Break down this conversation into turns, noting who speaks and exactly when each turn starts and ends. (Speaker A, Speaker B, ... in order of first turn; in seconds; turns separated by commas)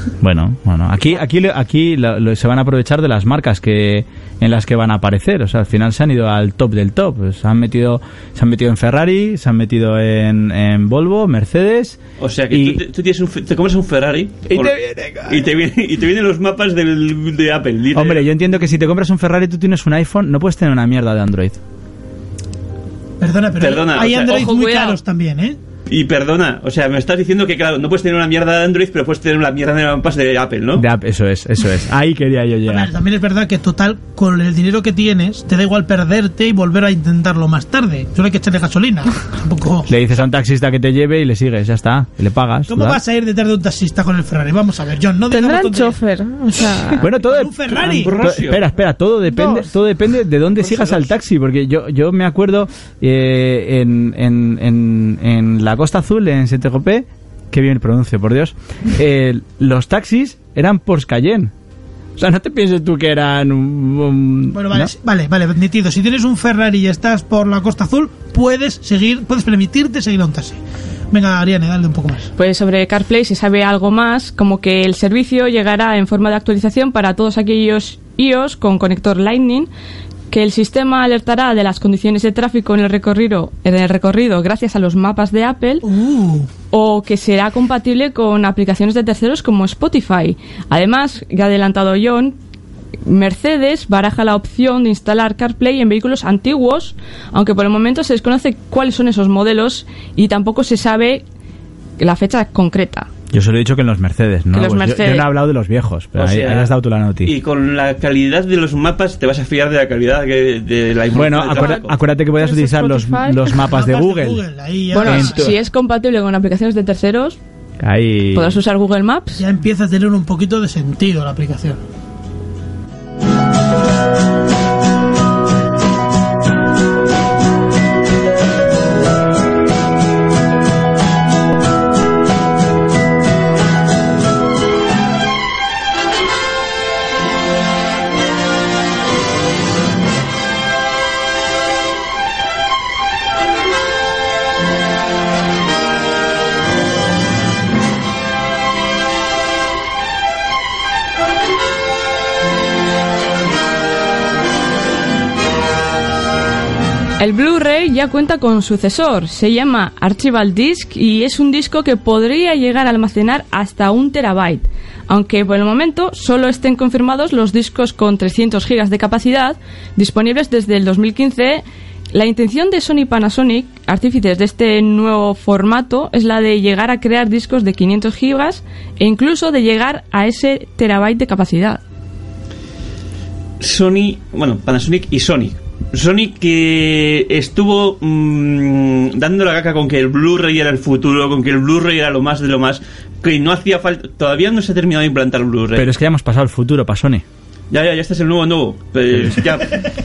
Speaker A: 0.2-12.8, Speaker B: 12.2-18.3, Speaker A: 17.9-21.6, Speaker C: 23.2-25.6, Speaker B: 23.6-24.5, Speaker D: 24.2-25.0, Speaker B: 25.9-30.9, Speaker A: 30.8-32.9, Speaker C: 32.7-39.9, Speaker A: 39.9-43.0, Speaker C: 42.7-46.0, Speaker E: 45.3-47.1, Speaker C: 46.5-48.1, Speaker A: 47.0-61.5, Speaker B: 47.7-48.7, Speaker E: 49.3-49.6, Speaker C: 50.6-51.1, Speaker A: 62.2-64.9, Speaker C: 64.5-70.6, Speaker C: 71.1-72.3, Speaker D: 72.3-79.7, Speaker D: 80.3-85.8, Speaker C: 85.8-86.5, Speaker D: 86.7-92.3, Speaker D: 93.0-101.2, Speaker D: 102.0-103.1, Speaker A: 103.3-107.3, Speaker D: 104.5-105.3, Speaker B: 106.2-112.0, Speaker A: 111.1-114.4, Speaker E: 112.3-113.5, Speaker C: 113.7-115.5, Speaker D: 114.9-117.4, Speaker A: 115.0-115.5, Speaker A: 117.8-118.6, Speaker D: 118.3-119.4, Speaker C: 119.4-121.8, Speaker D: 157.2-181.8, Speaker B: 183.6-195.9, Speaker A: 195.7-197.2, Speaker B: 197.7-199.8